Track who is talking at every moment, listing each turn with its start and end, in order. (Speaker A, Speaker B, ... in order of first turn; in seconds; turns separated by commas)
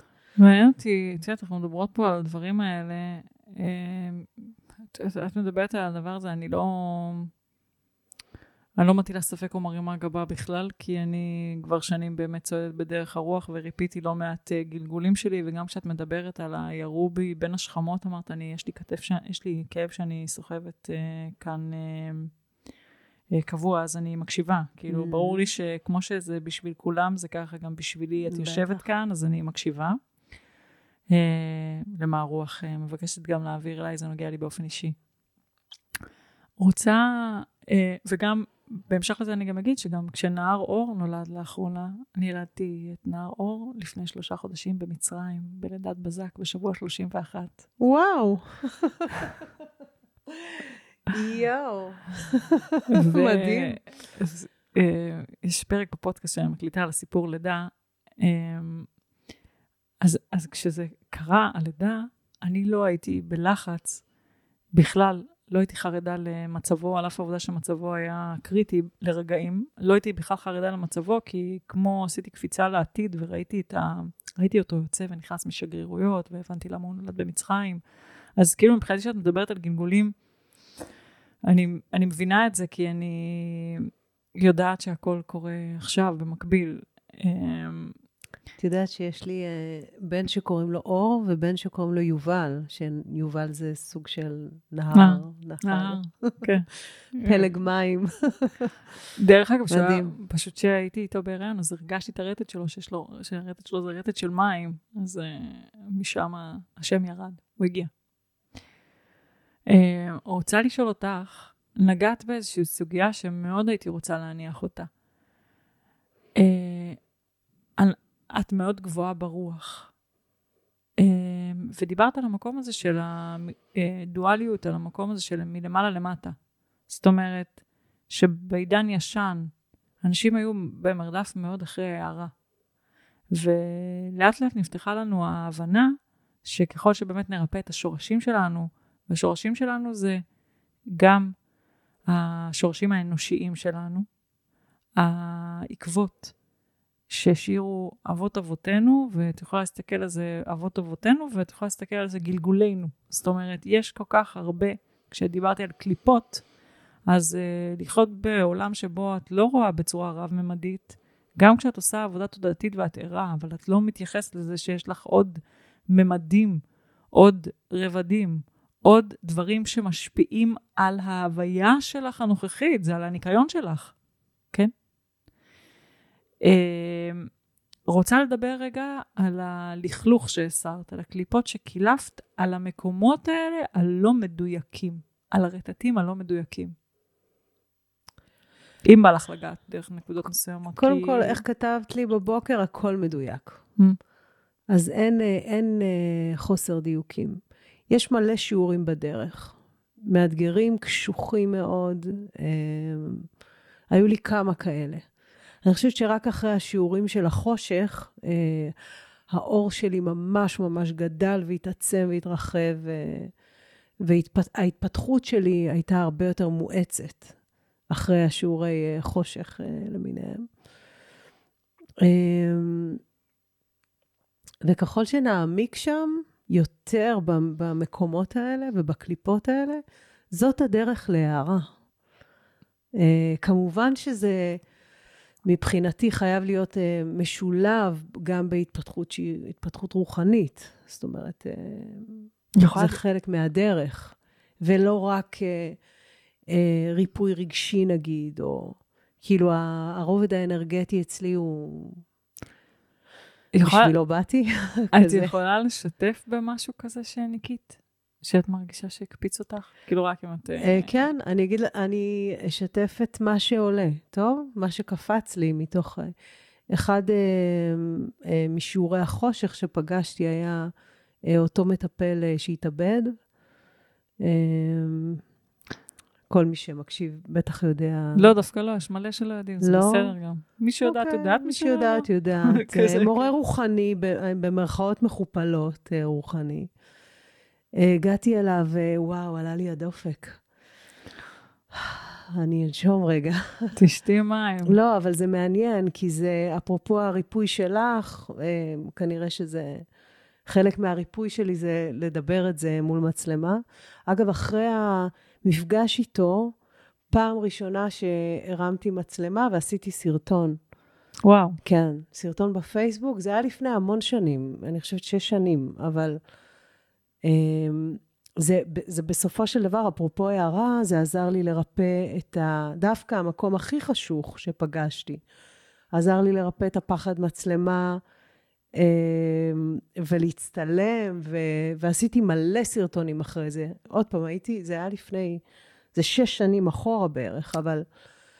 Speaker A: 0.4-7.3, Speaker A: 8.8-22.3, Speaker A: 23.3-30.0, Speaker B: 24.9-25.5, Speaker B: 28.3-28.8, Speaker A: 31.1-35.0, Speaker A: 36.6-47.6, Speaker B: 47.8-49.3, Speaker B: 51.1-53.8, Speaker A: 52.9-58.9, Speaker A: 60.0-64.0, Speaker A: 64.7-77.8, Speaker A: 78.4-80.1, Speaker A: 81.5-88.0, Speaker B: 88.6-96.5, Speaker A: 95.0-97.5, Speaker B: 97.2-98.7, Speaker A: 99.2-107.9, Speaker B: 99.7-100.2, Speaker A: 109.7-114.9, Speaker A: 116.4-117.0, Speaker A: 117.8-119.9, Speaker A: 121.0-126.4, Speaker A: 126.9-129.5, Speaker A: 130.0-132.3, Speaker A: 133.3-135.9, Speaker A: 136.4-140.2, Speaker A: 140.9-141.3, Speaker A: 142.1-144.1, Speaker A: 145.0-146.3, Speaker A: 147.1-156.4, Speaker A: 157.1-173.9, Speaker A: 176.4-177.3, Speaker A: 177.9-186.7, Speaker A: 188.9-191.4, Speaker B: 190.8-193.6, Speaker B: 194.7-199.6, Speaker B: 200.1-203.3, Speaker B: 203.9-205.0, Speaker B: 205.6-208.7, Speaker B: 209.3-213.3, Speaker B: 214.1-217.4, Speaker B: 217.9-220.5, Speaker B: 222.0-223.0, Speaker B: 224.7-231.7, Speaker B: 233.0-234.6, Speaker B: 235.4-245.8, Speaker A: 242.6-243.0, Speaker B: 246.5-252.0, Speaker A: 253.5-253.9, Speaker B: 253.6-255.3, Speaker A: 254.9-260.9, Speaker B: 260.6-266.1, Speaker B: 266.7-270.7, Speaker B: 271.3-273.2, Speaker B: 274.2-275.2, Speaker B: 276.3-278.3, Speaker A: 278.2-283.3, Speaker B: 279.6-280.1, Speaker B: 280.8-286.7, Speaker B: 287.8-290.4, Speaker B: 291.7-293.8, Speaker A: 293.8-294.8, Speaker B: 294.7-299.8, Speaker B: 300.5-306.5, Speaker B: 307.1-310.6, Speaker A: 311.2-311.6, Speaker B: 311.6-316.2, Speaker B: 317.2-325.2, Speaker B: 325.9-328.0, Speaker B: 328.8-335.4, Speaker B: 335.9-337.9